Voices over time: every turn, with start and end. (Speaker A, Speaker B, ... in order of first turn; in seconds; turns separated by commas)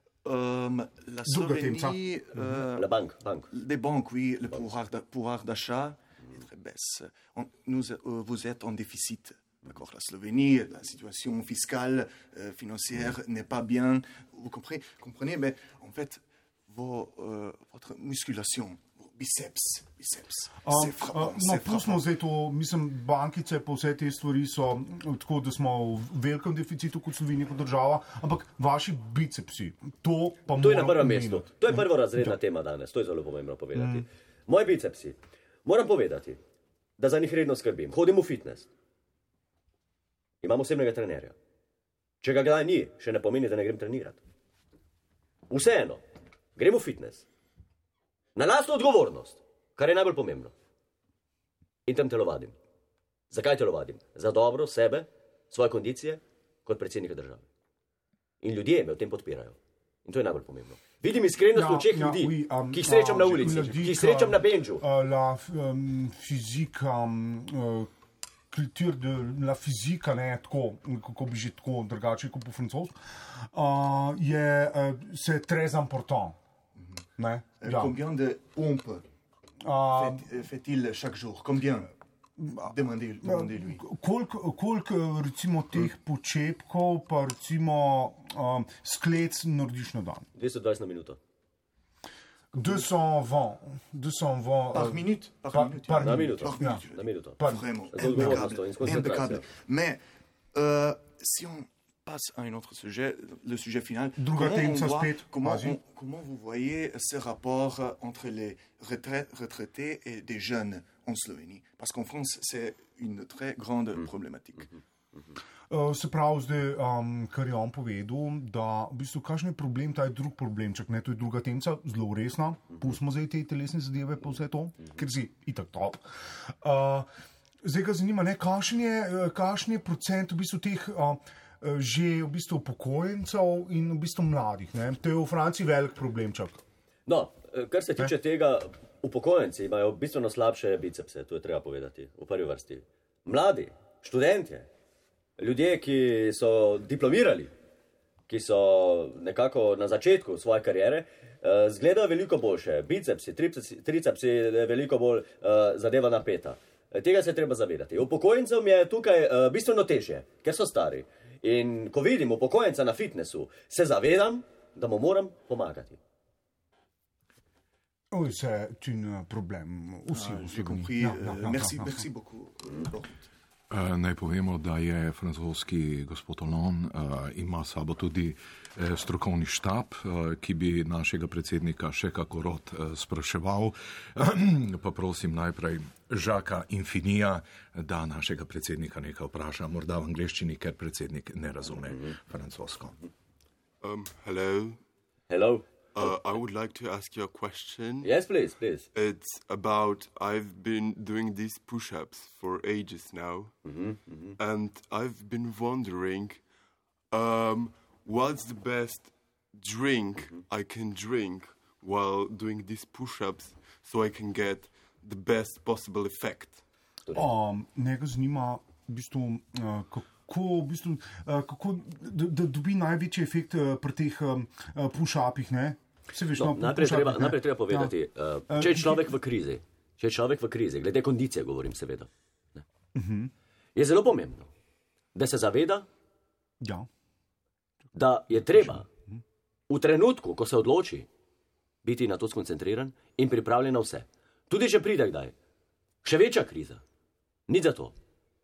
Speaker A: 0.2-3.0, Speaker B: 1.2-2.4, Speaker C: 2.7-3.5, Speaker A: 3.5-22.1, Speaker B: 20.6-32.4, Speaker C: 30.6-36.4, Speaker B: 33.7-34.0, Speaker C: 37.0-38.7, Speaker C: 40.4-41.3, Speaker C: 42.2-44.2, Speaker C: 45.5-46.0, Speaker C: 46.5-47.2, Speaker C: 48.4-50.5, Speaker C: 51.9-52.5, Speaker C: 53.3-57.4, Speaker C: 58.4-64.8, Speaker B: 61.5-67.9, Speaker B: 68.5-73.0, Speaker B: 73.5-76.4, Speaker A: 76.8-77.0, Speaker B: 77.2-78.0, Speaker A: 77.6-79.0, Speaker B: 79.6-80.2, Speaker A: 79.9-81.9, Speaker B: 82.4-90.3, Speaker A: 82.5-83.8, Speaker C: 90.3-91.2, Speaker B: 92.5-96.8, Speaker A: 94.7-100.0, Speaker C: 96.0-99.4, Speaker B: 97.4-98.5, Speaker A: 100.5-114.7, Speaker B: 104.2-105.8, Speaker B: 115.7-126.0, Speaker B: 126.6-127.1, Speaker B: 127.6-136.6, Speaker C: 137.1-144.7, Speaker C: 145.4-147.5, Speaker C: 148.3-166.0, Speaker B: 168.1-172.0, Speaker A: 170.1-173.3, Speaker D: 173.7-192.9, Speaker C: 191.9-192.2, Speaker E: 193.8-194.8, Speaker C: 195.3-195.6, Speaker E: 195.9-198.1, Speaker C: 198.0-198.9, Speaker E: 198.9-203.5, Speaker C: 203.6-204.3, Speaker E: 204.4-206.4, Speaker E: 207.1-216.6, Speaker B: 217.1-227.9, Speaker C: 226.3-232.6, Speaker B: 228.5-229.2, Speaker B: 232.9-233.3, Speaker C: 233.8-234.5, Speaker C: 235.1-235.9, Speaker B: 236.6-236.9, Speaker C: 237.9-238.8, Speaker B: 238.3-239.2, Speaker C: 239.7-241.1, Speaker C: 241.8-245.3, Speaker C: 246.0-246.8, Speaker C: 247.5-247.9